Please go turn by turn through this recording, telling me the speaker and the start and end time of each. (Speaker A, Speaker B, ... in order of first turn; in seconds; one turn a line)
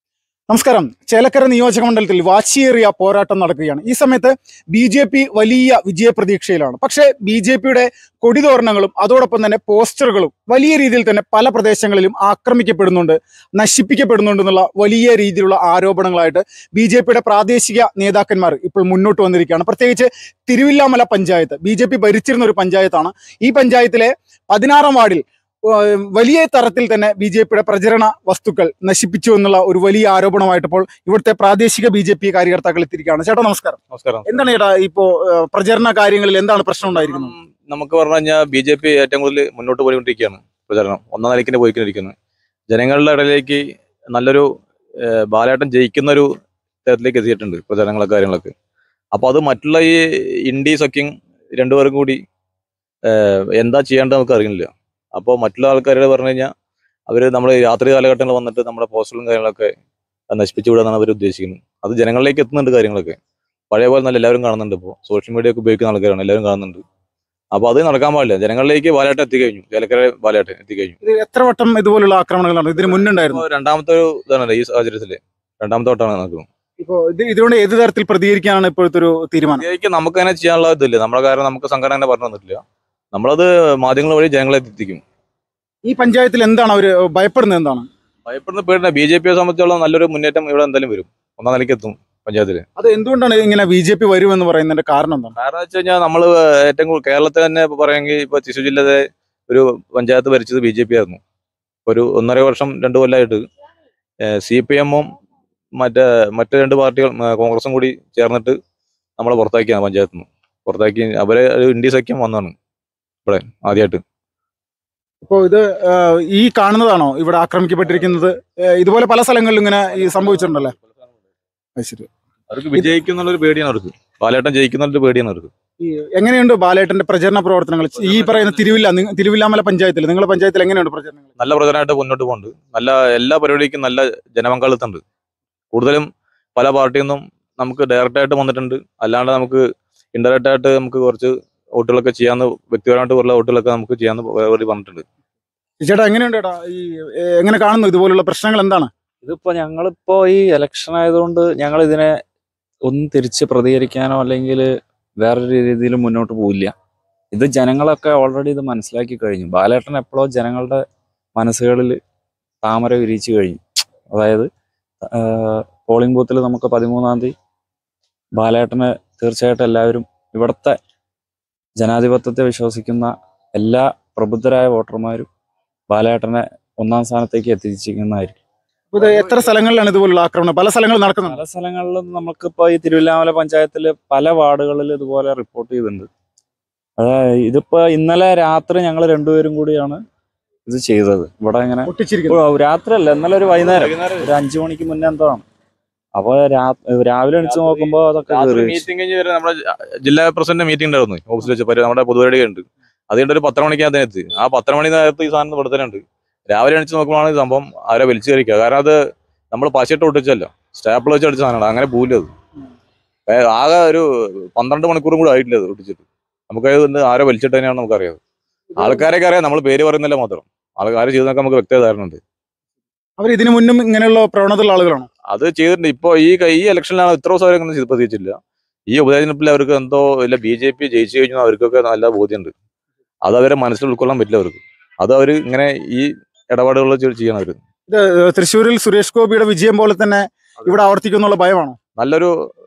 Speaker A: 0.5-37.3
Speaker B: 33.9-34.5
Speaker B: 36.9-42.1
Speaker B: 42.7-43.6
Speaker B: 44.1-44.5
Speaker B: 45.3-46.3
Speaker B: 46.9-48.5
Speaker B: 49.1-52.2
Speaker B: 53.1-56.5
Speaker B: 57.1-59.7
Speaker B: 60.3-63.2
Speaker B: 63.7-66.8
Speaker B: 67.5-71.0
Speaker A: 71.0-73.4
Speaker B: 72.8-76.5
Speaker A: 76.8-79.7
Speaker B: 79.5-82.6
Speaker B: 83.1-85.0
Speaker A: 85.8-87.8
Speaker B: 88.3-92.7
Speaker A: 92.8-95.3
Speaker B: 95.3-101.2
Speaker B: 101.8-103.4
Speaker B: 104.3-105.1
Speaker B: 105.8-108.6
Speaker B: 109.2-112.5
Speaker B: 113.3-114.0
Speaker A: 115.2-120.8
Speaker B: 119.9-120.8
Speaker A: 121.8-122.1
Speaker B: 122.5-125.5
Speaker A: 125.8-131.3
Speaker B: 127.9-128.8
Speaker B: 131.4-135.0
Speaker B: 135.7-139.6
Speaker B: 140.1-145.0
Speaker A: 145.8-148.9
Speaker C: 149.2-152.1
Speaker C: 152.8-154.7
Speaker C: 155.2-156.7
Speaker C: 157.3-160.8
Speaker C: 161.3-162.0
Speaker C: 162.6-163.6
Speaker C: 164.1-164.5
Speaker C: 165.1-167.3
Speaker C: 168.3-170.8
Speaker C: 171.8-175.3
Speaker C: 175.9-178.4
Speaker A: 178.9-181.4
Speaker C: 181.3-186.1
Speaker C: 187.0-190.0
Speaker C: 190.7-195.4
Speaker A: 191.8-192.4
Speaker B: 193.7-194.3
Speaker C: 196.2-198.8
Speaker B: 197.4-209.0
Speaker B: 209.5-212.3
Speaker B: 213.3-218.2
Speaker A: 218.7-219.1
Speaker B: 218.8-222.2
Speaker A: 223.2-225.1
Speaker B: 225.3-228.3
Speaker B: 228.9-232.5
Speaker B: 233.2-237.6
Speaker A: 237.9-241.8
Speaker B: 242.0-242.3